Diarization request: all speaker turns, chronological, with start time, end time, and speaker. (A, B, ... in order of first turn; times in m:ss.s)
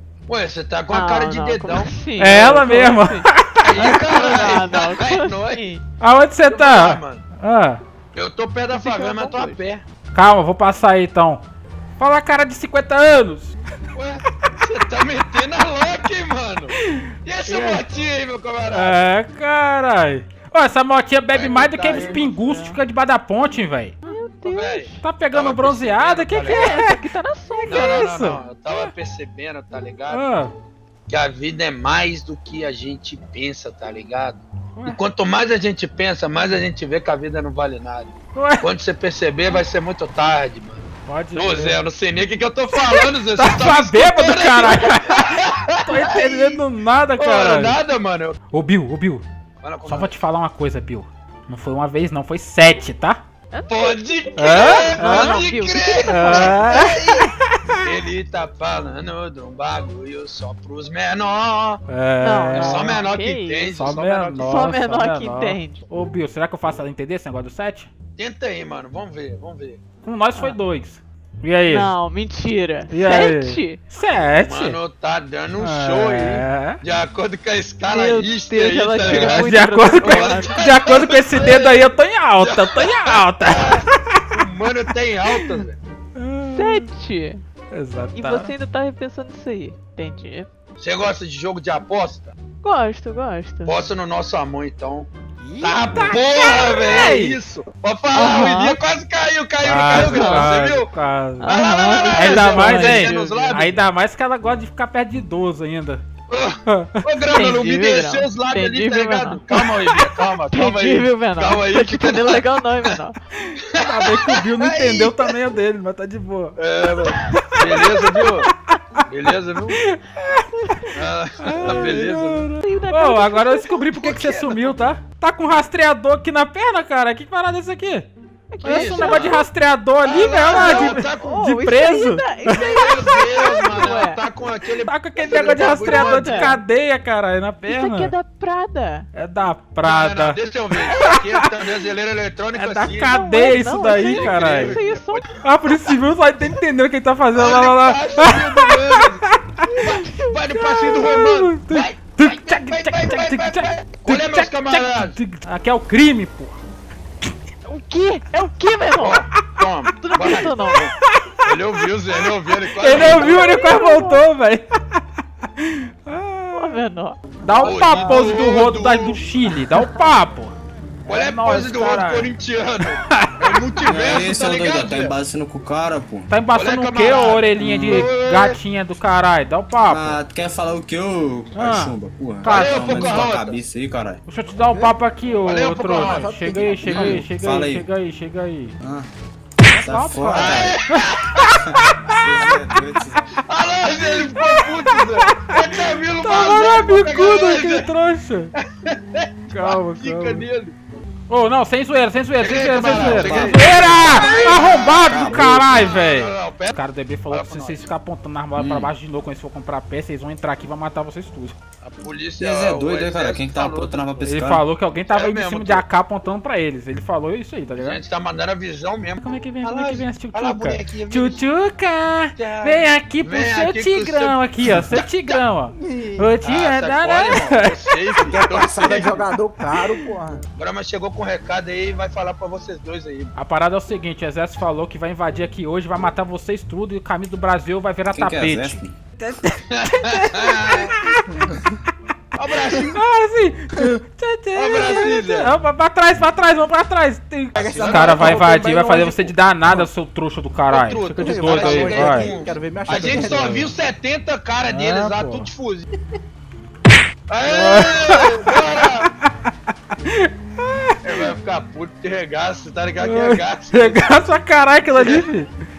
0:00.3-0:01.9 A
0:00.9-0:05.8 B
0:02.2-0:04.1 C
0:03.6-0:05.6 A
0:06.0-0:07.8 C
0:06.5-0:07.2 A
0:08.1-0:09.8 A
0:08.7-0:09.6 B
0:10.1-0:11.4 C
0:12.0-0:13.6 C
0:13.9-0:19.0 A
0:16.8-0:17.8 C
0:18.7-0:24.0 C
0:21.3-0:22.5 A
0:21.9-0:22.6 B
0:24.0-0:25.0 B
0:24.4-0:26.8 A
0:25.0-0:27.0 C
0:26.4-0:28.2 B
0:27.6-0:28.9 C
0:27.6-0:30.2 A
0:30.1-0:30.5 C
0:31.1-0:40.8 A
0:38.3-0:38.7 C
0:41.0-0:41.8 C
0:41.3-0:46.6 A
0:42.7-0:47.8 C
0:47.2-0:48.4 A
0:48.5-0:49.2 C
0:49.6-0:50.2 A
0:49.8-0:53.2 C
0:53.5-0:56.9 B
0:53.7-1:01.8 A
0:54.4-0:55.4 C
0:56.0-0:57.8 C
1:01.9-1:03.0 C
1:02.2-1:05.9 B
1:02.5-1:04.7 A
1:03.7-1:07.9 C
1:08.2-1:09.8 A
1:10.0-1:11.9 C
1:11.7-1:13.8 B
1:12.9-1:14.8 C
1:14.4-1:21.9 A
1:15.6-1:16.8 C
1:17.8-1:20.6 B
1:19.0-1:24.4 C
1:22.4-1:25.8 A
1:25.2-1:25.6 C
1:26.1-1:26.9 C
1:26.5-1:27.4 B
1:27.7-1:28.5 C
1:28.1-1:30.5 B
1:30.8-1:32.3 A
1:32.6-1:33.8 B
1:33.6-1:35.1 A
1:35.4-1:37.4 C
1:35.6-1:40.9 A
1:38.1-1:38.8 B
1:39.6-1:41.6 C
1:39.9-1:40.5 B
1:41.4-1:43.7 B
1:41.5-1:43.7 A
1:42.1-1:46.0 C
1:46.3-1:52.5 A
1:46.7-1:47.0 C
1:47.3-1:49.6 B
1:50.5-1:53.2 B
1:53.4-1:56.6 C
1:53.7-1:55.3 A
1:56.6-1:58.5 A
1:57.2-1:58.4 C
1:59.1-1:59.8 A
1:59.7-2:00.8 C
2:00.9-2:02.5 A
2:01.4-2:08.1 C
2:01.6-2:01.9 B
2:02.6-2:03.8 B
2:03.8-2:04.8 A
2:08.5-2:09.4 B
2:08.6-2:09.4 A
2:08.6-2:12.6 C
2:10.0-2:11.3 A
2:10.2-2:14.2 B
2:12.5-2:16.6 A
2:14.8-2:18.1 C
2:15.3-2:16.6 B
2:17.6-2:19.1 B
2:19.1-2:21.6 C
2:19.8-2:25.4 A
2:22.5-2:24.8 C
2:23.1-2:25.3 B
2:25.4-2:29.7 C
2:27.3-2:35.2 A
2:29.7-2:30.9 B
2:30.6-2:36.6 C
2:37.7-2:39.2 B
2:39.0-2:43.6 A
2:40.0-2:40.9 B
2:40.8-2:42.2 C
2:42.7-2:45.0 C
2:42.9-2:44.2 B
2:45.6-2:46.8 C
2:46.5-2:48.1 B
2:47.4-2:50.5 C
2:47.6-2:49.6 A
2:51.0-2:52.3 C
2:51.1-2:55.1 A
2:53.0-2:53.5 C
2:53.8-2:56.4 D
2:56.3-3:00.2 C
2:56.5-2:58.6 A
2:57.6-2:58.0 D
2:59.9-3:04.2 D
3:01.5-3:03.3 C
3:02.4-3:03.6 A
3:04.3-3:08.8 C
3:04.6-3:04.9 E
3:05.4-3:06.3 A
3:06.0-3:06.9 E
3:06.8-3:07.8 D
3:08.8-3:09.1 D
3:09.7-3:10.8 D
3:09.7-3:12.5 C
3:10.3-3:11.5 A
3:11.7-3:13.2 D
3:13.5-3:17.8 A
3:14.1-3:18.5 C
3:18.8-3:20.7 A
3:19.5-3:20.4 C
3:21.3-3:31.6 C
3:22.4-3:27.9 A
3:22.7-3:25.7 D
3:28.6-3:28.9 D
3:31.8-3:34.2 A
3:32.4-3:34.6 D
3:34.2-3:38.0 C
3:35.1-3:35.8 A
3:37.8-3:41.4 A
3:39.2-3:48.2 C
3:42.4-3:45.4 A
3:45.8-3:46.4 E
3:46.4-3:49.3 A
3:48.3-3:50.4 E
3:50.6-3:53.3 A
3:53.3-4:01.4 C
3:58.1-3:58.9 D
3:59.7-4:01.0 A
4:02.4-4:03.0 A
4:02.8-4:12.3 C
4:04.6-4:05.5 A
4:07.5-4:09.9 E
4:07.6-4:08.4 A
4:10.7-4:15.9 A
4:11.2-4:13.7 E
4:13.1-4:13.3 C
4:14.7-4:15.5 C
4:17.3-4:19.1 A
4:17.4-4:19.5 C
4:20.0-4:21.3 C
4:21.0-4:24.0 A
4:23.0-4:25.5 C
4:24.9-4:25.3 A